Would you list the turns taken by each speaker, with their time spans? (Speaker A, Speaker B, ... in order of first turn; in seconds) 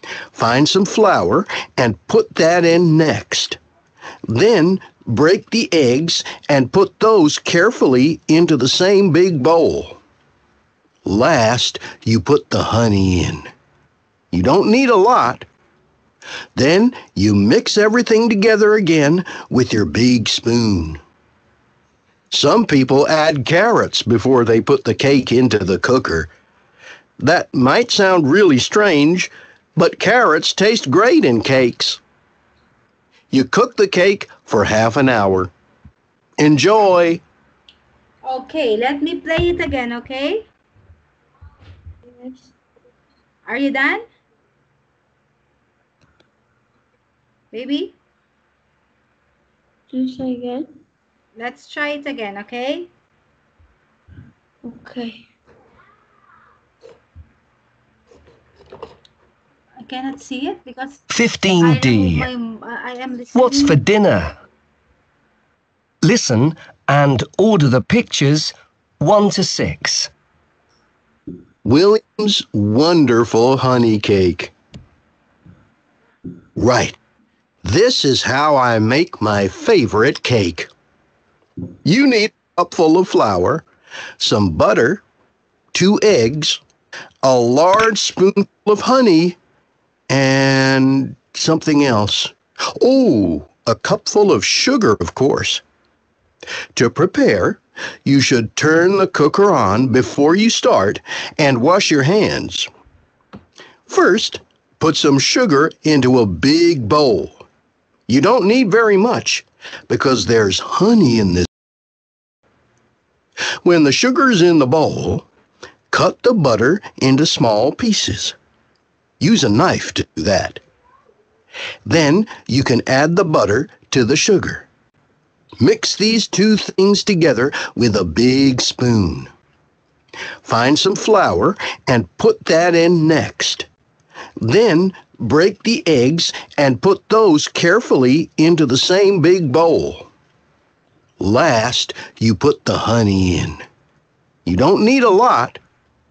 Speaker A: 0.3-3.6, 4.3-10.0, 11.0-13.5, 14.3-15.5, 16.5-21.0, 22.3-26.3, 27.2-32.0, 33.3-35.5, 36.4-37.2, 71.6-74.5, 76.5-77.0, 77.6-80.7, 81.8-83.6, 84.2-85.0, 85.7-86.6, 87.2-89.4, 90.1-95.6, 96.7-102.7, 103.9-107.4, 108.1-111.5, 113.6-115.3, 115.9-118.3, 119.2-120.6, 121.8-124.7, 125.6-129.3, 130.4-133.7, 134.4-140.1, 141.2-143.6, 144.4-145.6
Speaker B: 38.2-40.5, 43.5-44.0, 47.5-48.0, 51.4-52.9, 59.8-61.0, 61.6-63.8
Speaker C: 42.0-42.5, 49.9-50.7, 54.6-55.3
Speaker D: 61.1-62.3, 63.3-64.4, 66.0-70.1